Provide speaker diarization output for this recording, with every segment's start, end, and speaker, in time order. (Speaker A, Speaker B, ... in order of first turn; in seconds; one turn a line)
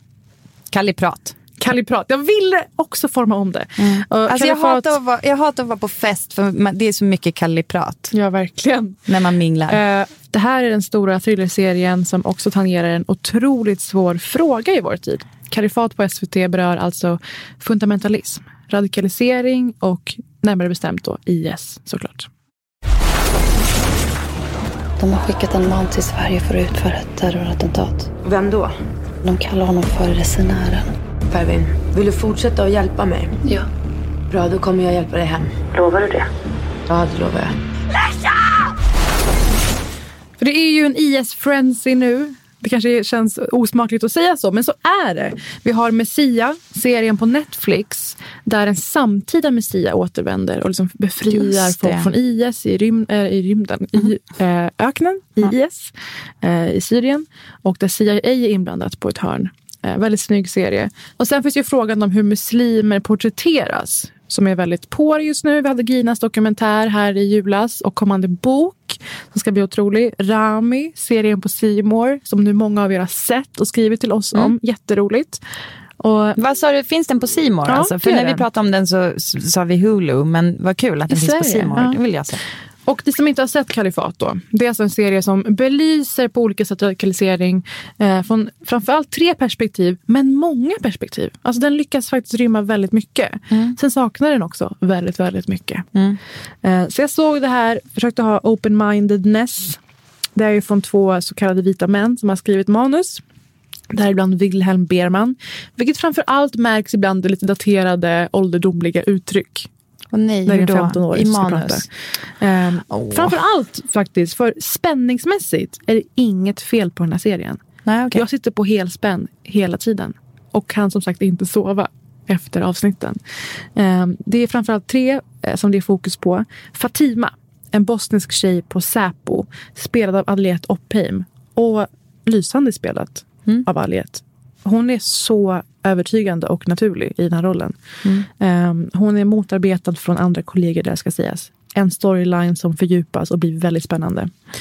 Speaker A: 0.7-1.4
Speaker B: 1.6-5.0
Speaker A: 3.8-8.1
Speaker B: 8.1-9.0
Speaker A: 9.1-9.8
Speaker B: 9.7-22.3
Speaker C: 25.0-28.0
Speaker D: 28.2-28.7
Speaker C: 29.3-30.9
Speaker D: 31.3-33.5
Speaker D: 34.3-36.1
Speaker D: 36.9-37.5
Speaker B: 40.4-75.4
Speaker A: 51.2-52.1
Speaker B: 76.0-76.4
Speaker A: 76.4-82.4
Speaker B: 77.7-78.4
Speaker B: 81.1-82.0
Speaker B: 82.9-95.9
Speaker A: 93.5-93.8
Speaker B: 96.6-99.8
Speaker B: 100.4-103.2
Speaker B: 103.9-109.7
Speaker A: 110.1-111.9
Speaker B: 110.5-111.9
Speaker B: 112.4-117.6
Speaker A: 112.9-113.3
Speaker A: 117.9-118.2
Speaker B: 118.1-123.2
Speaker B: 123.8-144.4